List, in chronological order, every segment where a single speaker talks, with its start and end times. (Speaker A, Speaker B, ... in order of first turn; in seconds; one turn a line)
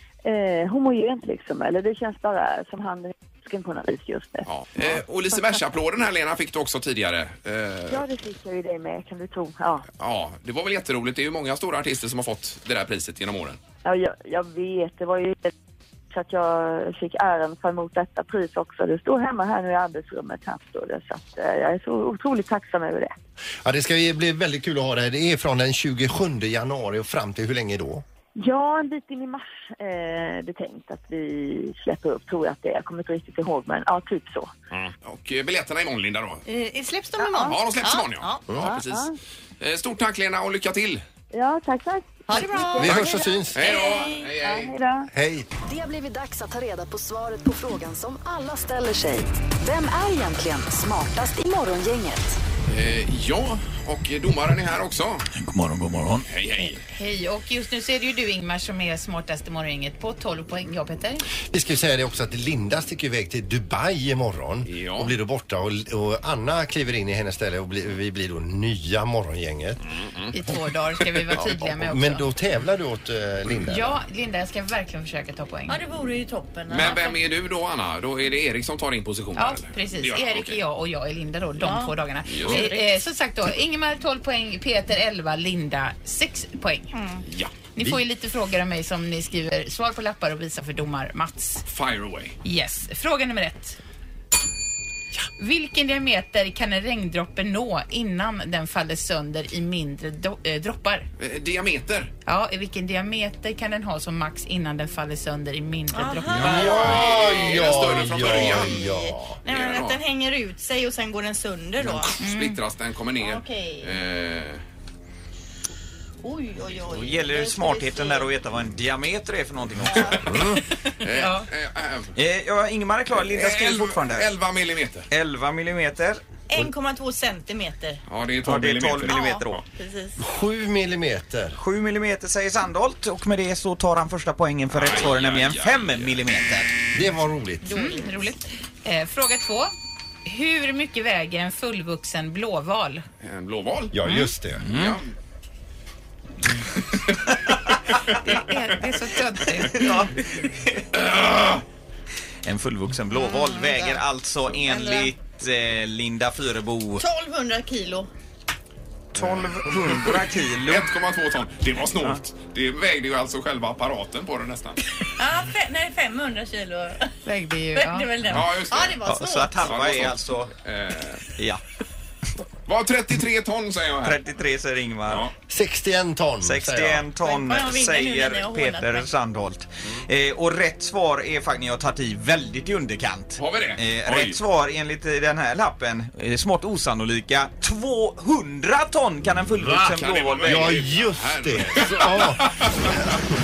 Speaker A: 0.2-5.6
Speaker B: 4.5-8.1
Speaker A: 7.9-9.8
Speaker B: 10.0-13.6
Speaker A: 13.8-15.5
Speaker A: 16.1-23.1
Speaker C: 23.6-28.0
Speaker A: 28.4-34.5
Speaker B: 34.7-36.4
Speaker D: 36.5-38.4
Speaker A: 37.2-37.6
Speaker B: 37.4-41.0
Speaker A: 38.6-39.1
Speaker A: 41.3-45.1
Speaker D: 42.3-43.0
Speaker C: 42.8-43.6
Speaker B: 43.5-44.7
Speaker D: 43.6-44.3
Speaker C: 45.1-45.5
Speaker E: 45.6-52.4
Speaker B: 52.7-55.3
Speaker F: 55.4-56.2
Speaker B: 56.3-56.8
Speaker G: 56.9-61.2
Speaker C: 61.4-69.8
Speaker B: 64.7-65.1
Speaker B: 69.9-70.3
Speaker D: 70.3-71.5
Speaker G: 70.3-72.2
Speaker C: 71.3-74.0
Speaker G: 73.7-75.8
Speaker D: 75.7-77.2
Speaker B: 76.7-80.6
Speaker G: 79.3-87.0
Speaker D: 81.6-82.8
Speaker B: 82.2-82.7
Speaker D: 86.9-87.2
Speaker B: 87.2-87.5
Speaker G: 87.8-91.6
Speaker B: 91.7-92.4
Speaker G: 92.4-93.8
Speaker G: 95.4-101.1
Speaker B: 101.2-102.1
Speaker G: 102.2-106.6
Speaker D: 105.9-112.1
Speaker B: 106.3-108.8
Speaker C: 106.3-109.4
Speaker B: 109.5-110.0
Speaker B: 111.8-114.6
Speaker G: 112.2-112.6
Speaker D: 113.2-113.9
Speaker D: 116.2-118.3
Speaker F: 116.9-120.4
Speaker D: 119.8-120.9
Speaker B: 120.1-120.4
Speaker B: 121.0-122.1
Speaker G: 121.2-121.4
Speaker F: 122.2-124.3
Speaker B: 123.2-125.1
Speaker F: 125.1-126.7
Speaker D: 126.5-128.0
Speaker B: 128.1-129.6
Speaker F: 128.4-129.6
Speaker D: 129.1-130.2
Speaker C: 130.2-131.6
Speaker F: 131.6-136.7
Speaker B: 134.7-136.2
Speaker C: 136.9-137.7
Speaker G: 137.7-139.7
Speaker D: 137.7-138.1
Speaker G: 140.2-143.0
Speaker B: 143.2-143.9
Speaker C: 143.9-144.6
Speaker F: 144.6-145.0
Speaker B: 144.7-145.1
Speaker G: 148.1-150.3
Speaker F: 149.7-150.8
Speaker B: 150.9-151.6
Speaker F: 152.4-157.0
Speaker D: 153.1-154.0
Speaker D: 154.5-155.1
Speaker D: 157.0-158.1
Speaker F: 159.1-160.9
Speaker B: 159.9-164.8
Speaker D: 165.2-167.1
Speaker G: 167.2-168.1
Speaker D: 167.7-169.7
Speaker B: 168.3-169.0
Speaker F: 169.1-170.5
Speaker B: 169.6-171.3
Speaker B: 172.7-174.2
Speaker F: 174.0-175.3
Speaker C: 175.5-177.1
Speaker F: 176.4-190.8
Speaker D: 177.2-179.1
Speaker B: 183.4-184.4
Speaker B: 189.6-193.1
Speaker C: 190.4-193.2